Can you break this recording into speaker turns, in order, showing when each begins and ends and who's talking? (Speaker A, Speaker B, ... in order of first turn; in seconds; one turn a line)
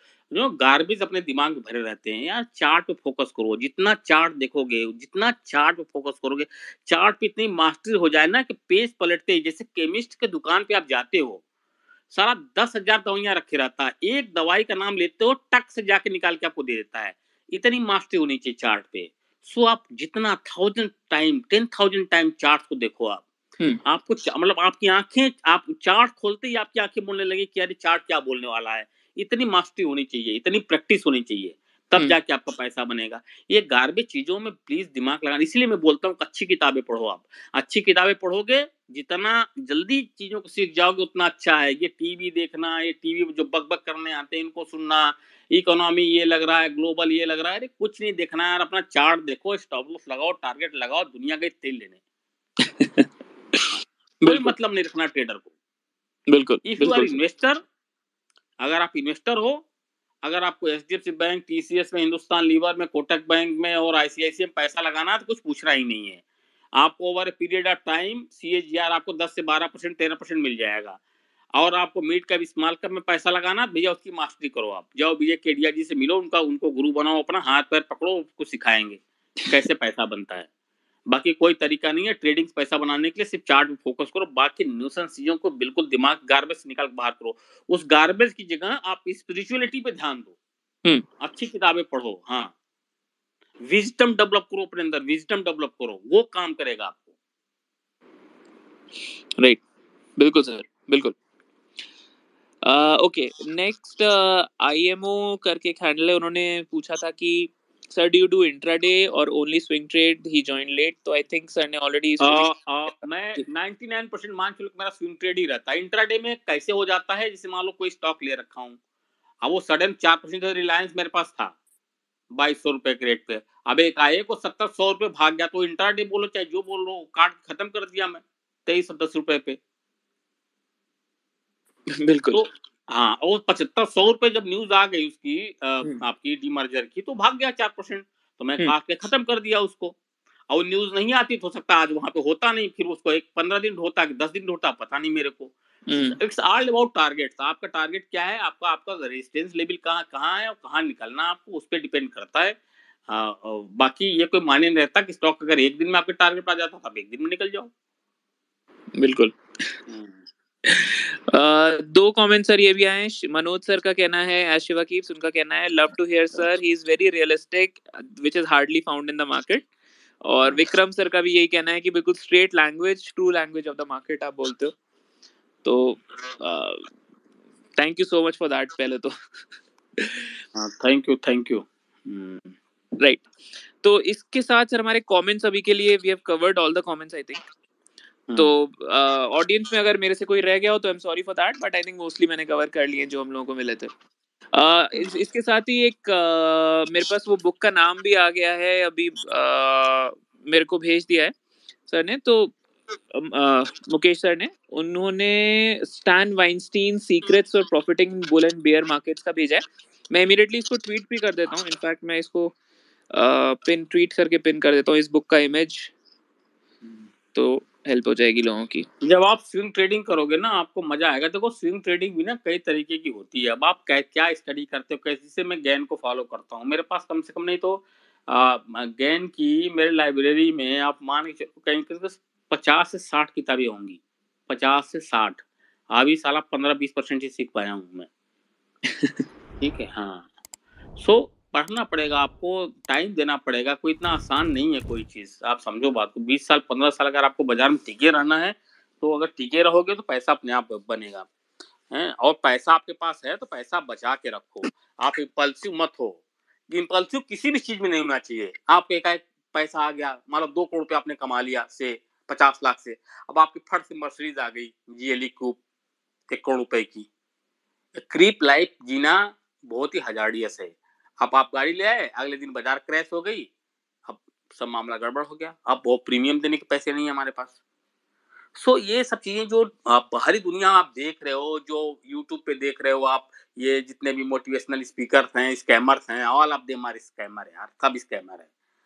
Speaker A: 0.3-11.4
Speaker A: 12.1-23.2
Speaker A: 23.9-52.0
Speaker B: 52.8-54.5
Speaker A: 54.2-55.5
Speaker B: 56.3-57.2
Speaker A: 56.6-57.6
Speaker A: 58.6-59.6
Speaker A: 60.2-66.2
Speaker A: 66.8-71.0
Speaker A: 71.6-80.5
Speaker A: 81.1-90.3
Speaker A: 91.2-92.5
Speaker A: 93.6-97.0
Speaker B: 100.2-101.2
Speaker B: 102.6-112.5
Speaker A: 112.2-118.8
Speaker A: 119.4-121.6
Speaker A: 122.3-129.6
Speaker B: 132.0-132.4
Speaker A: 132.3-140.0
Speaker A: 140.5-152.6
Speaker B: 145.9-146.2
Speaker A: 153.1-157.7
Speaker B: 159.0-159.4
Speaker A: 159.9-160.2
Speaker B: 160.7-169.7
Speaker B: 170.2-174.7
Speaker B: 175.6-176.8
Speaker B: 177.8-179.1
Speaker B: 180.0-180.3
Speaker A: 180.5-182.5
Speaker B: 183.0-183.2
Speaker B: 183.8-187.4
Speaker A: 188.3-188.5
Speaker B: 188.3-193.9
Speaker B: 194.5-201.3
Speaker B: 201.9-202.6
Speaker B: 203.1-212.6
Speaker B: 213.1-215.9
Speaker B: 217.3-218.9
Speaker A: 219.0-235.4
Speaker A: 235.9-238.1
Speaker B: 238.9-239.2
Speaker A: 239.6-240.3
Speaker A: 241.0-251.3
Speaker A: 251.9-265.6
Speaker A: 266.3-267.1
Speaker A: 267.9-273.5
Speaker A: 274.1-277.6
Speaker A: 278.6-288.5